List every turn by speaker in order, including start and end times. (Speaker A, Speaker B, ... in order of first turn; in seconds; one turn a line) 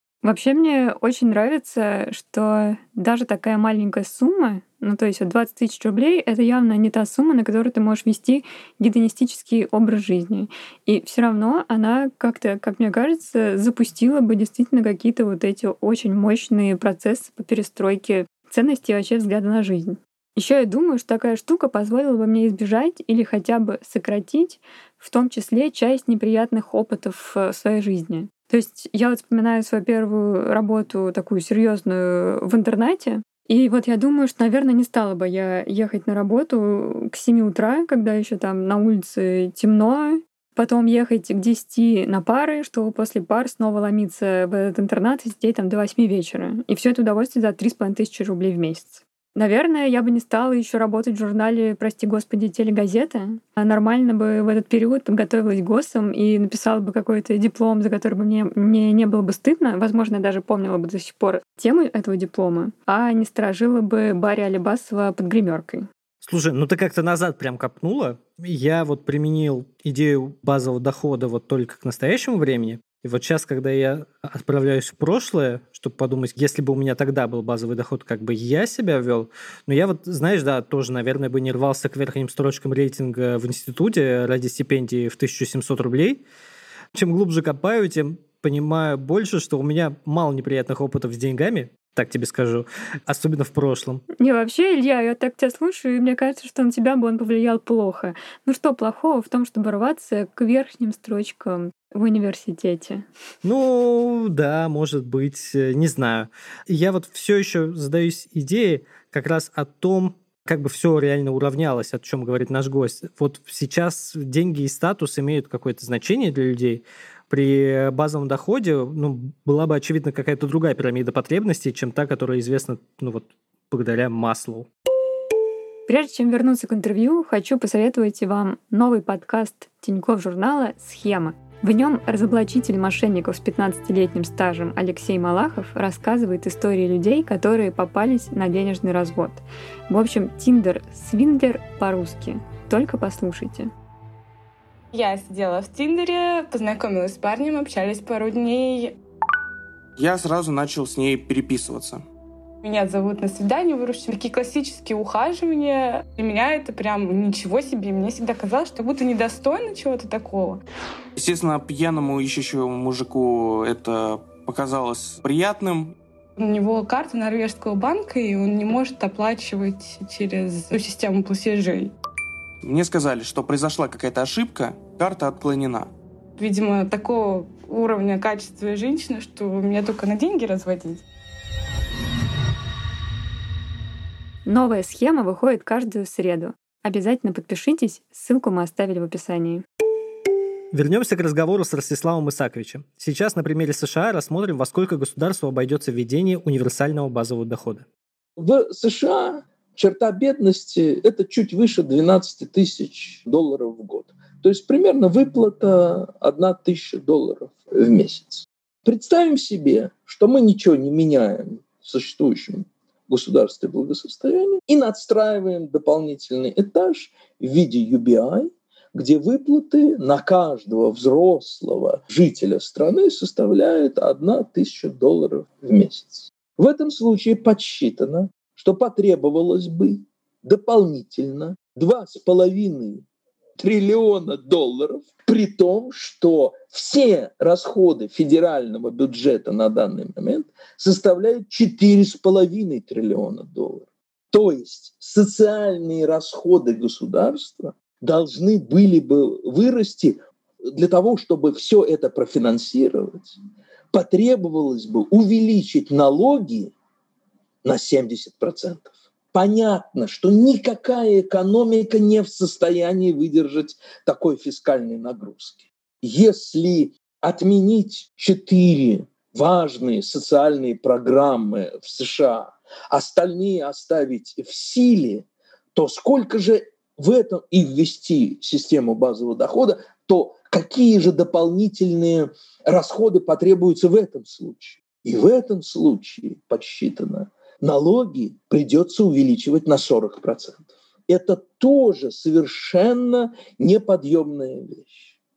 Speaker A: 0.2-65.8
Speaker B: 66.2-86.2
Speaker B: 86.9-94.0
Speaker A: 94.2-103.0
Speaker B: 103.4-124.7
Speaker A: 125.9-143.7
Speaker C: 144.9-148.9
Speaker D: 149.9-152.0
Speaker C: 152.6-160.6
Speaker D: 161.2-165.9
Speaker C: 166.4-171.9
Speaker D: 172.6-175.9
Speaker C: 176.4-181.0
Speaker A: 184.4-189.6
Speaker B: 190.7-197.8
Speaker E: 198.4-233.0
Speaker E: 233.6-253.4
Speaker E: 253.9-256.7
Speaker E: 257.6-295.1